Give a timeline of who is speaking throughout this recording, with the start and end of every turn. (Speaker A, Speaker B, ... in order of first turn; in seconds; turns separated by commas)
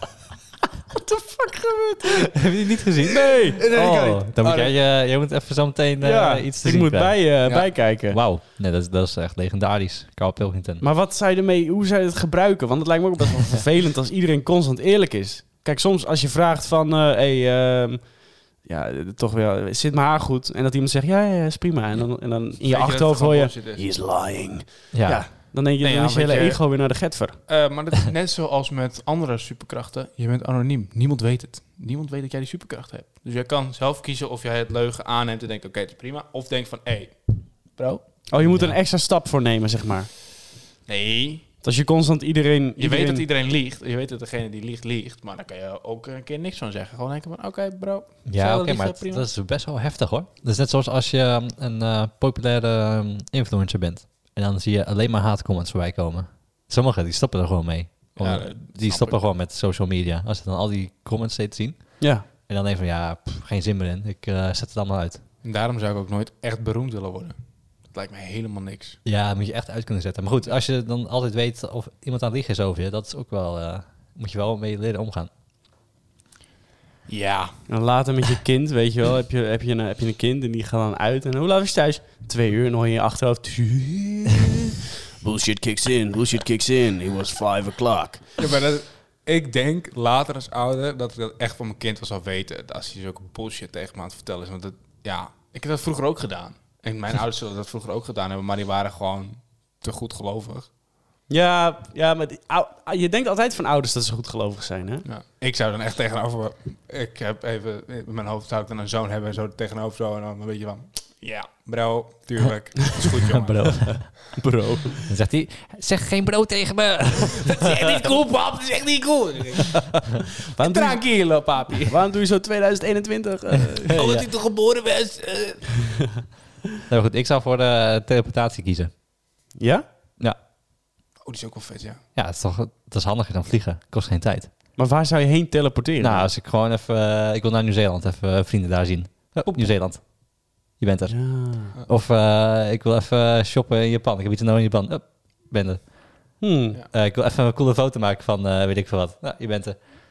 Speaker A: 0.9-2.4, Speaker B: 2.3-10.8, Speaker A: 3.1-3.8, Speaker C: 3.5-4.7, Speaker A: 6.0-8.2, Speaker C: 7.5-7.7, Speaker A: 10.8-27.4, Speaker C: 22.6-23.8, Speaker B: 24.9-25.3, Speaker C: 25.8-26.6, Speaker C: 27.5-38.0, Speaker A: 38.3-40.1, Speaker B: 38.4-38.8, Speaker C: 40.9-41.5, Speaker A: 41.6-43.2, Speaker C: 42.8-49.3, Speaker B: 48.2-65.2, Speaker C: 58.1-59.2, Speaker A: 62.0-62.2, Speaker C: 65.4-67.3, Speaker C: 67.9-69.0, Speaker B: 69.0-75.3, Speaker C: 77.1-77.6, Speaker A: 77.7-88.2, Speaker C: 88.4-100.7, Speaker A: 101.3-105.0, Speaker C: 105.0-114.0, Speaker B: 113.3-114.0, Speaker A: 113.4-115.1, Speaker B: 115.1-118.1, Speaker C: 117.3-122.0, Speaker A: 120.5-124.0, Speaker B: 123.8-124.3, Speaker C: 123.9-125.9, Speaker B: 126.9-128.9, Speaker A: 129.5-129.8, Speaker C: 131.2-132.0, Speaker B: 132.1-134.5, Speaker A: 134.8-136.3, Speaker B: 136.0-149.8, Speaker A: 141.1-141.7, Speaker A: 146.4-146.8